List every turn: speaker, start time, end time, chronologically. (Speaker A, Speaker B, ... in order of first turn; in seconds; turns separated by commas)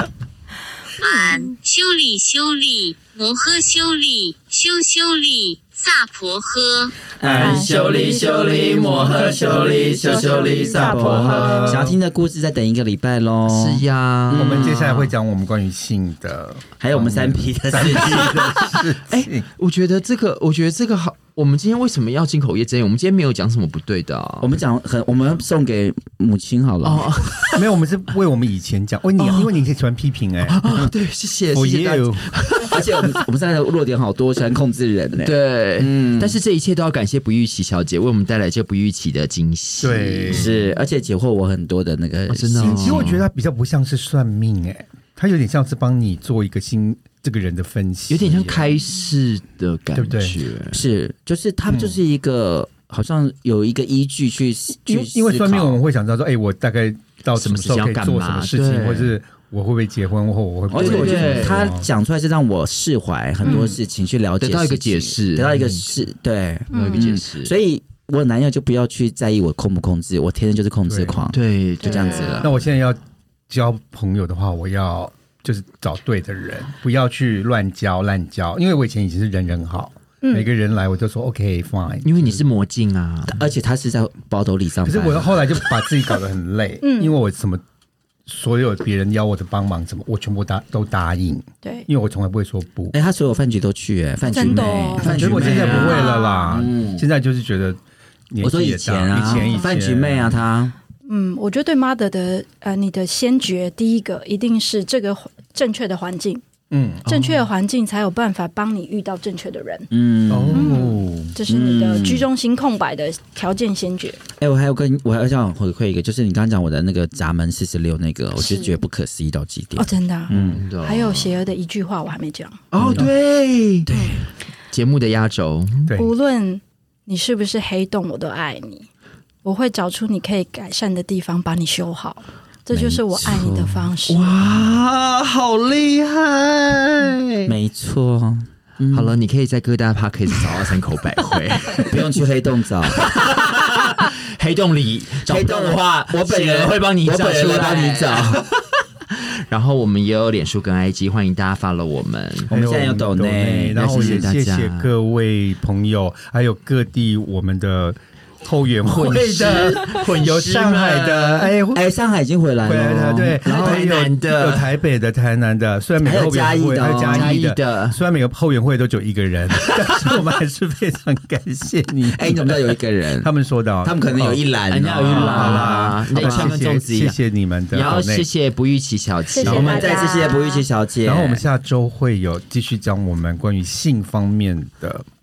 Speaker A: 1.0-7.0, Speaker B: 7.2-14.9, Speaker C: 7.3-11.9, Speaker D: 7.3-11.9, Speaker E: 7.4-11.6, Speaker E: 13.5-15.1, Speaker C: 14.3-19.4, Speaker B: 16.8-18.5, Speaker E: 17.8-24.5, Speaker B: 24.4-27.1, Speaker E: 26.8-27.7, Speaker C: 27.5-30.9, Speaker E: 29.2-29.5, Speaker E: 30.4-33.2, Speaker C: 31.5-32.3, Speaker B: 32.6-36.4, Speaker E: 35.2-40.6, Speaker C: 39.8-40.5, Speaker B: 40.3-43.1, Speaker E: 42.3-43.2, Speaker C: 42.6-48.7, Speaker E: 48.1-50.8, Speaker C: 50.0-50.3, Speaker B: 50.7-55.8, Speaker C: 51.7-52.0, Speaker C: 54.9-61.9, Speaker E: 57.4-59.1, Speaker E: 60.7-61.7, Speaker B: 60.7-72.5, Speaker D: 63.4-63.8, Speaker E: 64.4-65.9, Speaker D: 66.7-67.1, Speaker E: 66.7-67.5, Speaker C: 70.9-71.2, Speaker E: 71.3-72.5, Speaker D: 71.8-72.4, Speaker C: 72.4-82.4, Speaker D: 80.2-80.5, Speaker E: 82.0-83.4, Speaker B: 83.3-85.5, Speaker C: 84.8-87.6, Speaker D: 86.8-87.2, Speaker C: 88.2-92.9, Speaker B: 92.9-97.0, Speaker D: 94.2-96.6, Speaker C: 95.0-100.3, Speaker E: 95.1-96.1, Speaker B: 98.4-100.7, Speaker D: 99.2-99.7, Speaker D: 101.0-106.4, Speaker C: 106.7-107.1, Speaker E: 107.0-107.4, Speaker D: 107.0-109.9, Speaker B: 109.9-110.8, Speaker C: 110.3-111.3, Speaker D: 110.5-114.2, Speaker B: 111.4-112.3, Speaker B: 114.4-120.6, Speaker D: 118.4-118.8, Speaker D: 119.8-122.6, Speaker E: 120.3-121.3, Speaker E: 122.7-123.9, Speaker B: 122.8-123.1, Speaker B: 123.8-124.2, Speaker D: 123.9-124.2, Speaker E: 124.7-125.9, Speaker C: 125.8-126.1, Speaker D: 125.9-128.9, Speaker D: 129.4-134.3, Speaker E: 132.7-137.5, Speaker B: 137.4-139.1, Speaker E: 138.9-142.2, Speaker B: 141.8-143.0, Speaker E: 142.8-152.5, Speaker B: 145.3-148.4, Speaker B: 152.5-154.3, Speaker C: 152.5-161.8, Speaker E: 153.7-154.9, Speaker E: 158.8-161.5, Speaker B: 161.7-163.9, Speaker C: 162.6-174.4, Speaker E: 163.4-164.7, Speaker B: 166.0-167.4, Speaker E: 167.0-168.0, Speaker B: 172.1-173.3, Speaker B: 173.8-176.6, Speaker E: 174.7-177.2, Speaker C: 175.0-178.3, Speaker E: 177.7-180.2, Speaker D: 179.3-180.6, Speaker B: 179.4-181.4, Speaker C: 181.0-185.0